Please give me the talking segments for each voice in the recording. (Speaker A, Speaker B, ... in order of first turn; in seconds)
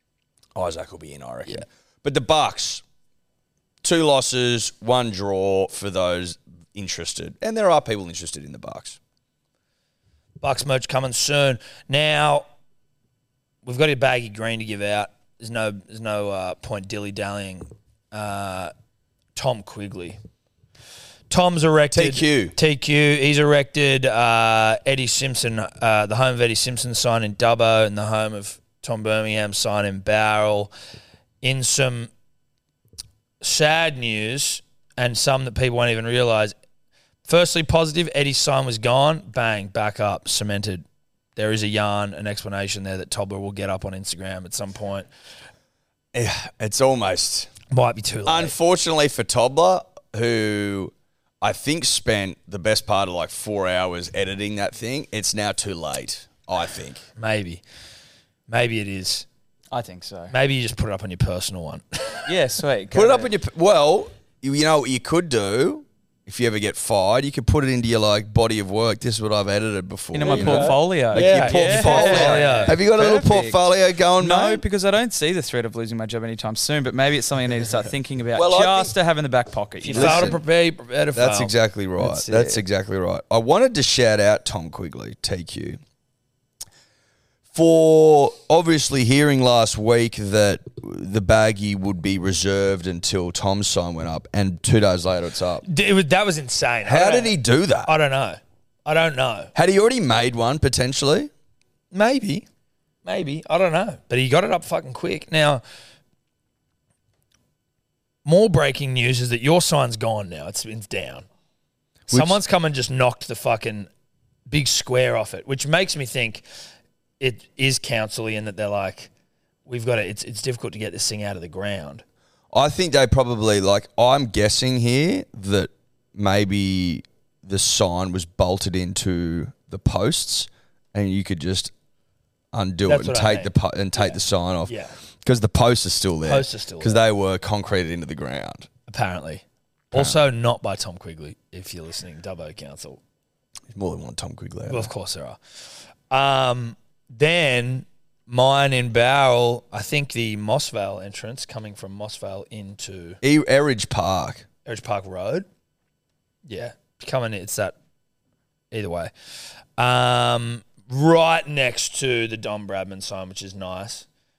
Speaker A: 0.5-2.8, 3.8-9.0, 21.9-22.6, 46.1-47.5, 48.2-57.0, 62.9-74.6, 78.3-78.9, 79.9-80.4, 81.1-85.8, 87.5-95.6, 96.8-97.9, 99.5-101.3, 112.1-112.4, 122.5-131.7, 132.5-138.7, 139.9-140.2, 143.7-144.9, 153.2-154.4
Speaker B: 10.4-12.4, 13.6-18.7, 19.3-20.2, 21.3-30.7, 31.4-32.1, 33.4-36.5, 37.2-40.8, 41.4-45.1, 47.7-48.5, 57.2-57.6, 58.5-59.3, 60.3-62.2, 70.3-72.7, 79.8-82.6, 95.7-97.3, 97.8-99.5, 101.9-102.5, 103.0-105.6, 108.2-111.3, 112.1-113.9, 114.5-116.4, 117.2-119.1, 119.7-122.0, 132.8-134.9, 136.2-137.1, 138.9-143.0, 144.7-145.4, 146.1-153.2, 154.6-155.4, 156.4-157.8, 158.7-159.1, 159.8-164.1
Speaker C: 59.7-60.3, 62.3-63.3, 70.1-73.6, 74.2-80.4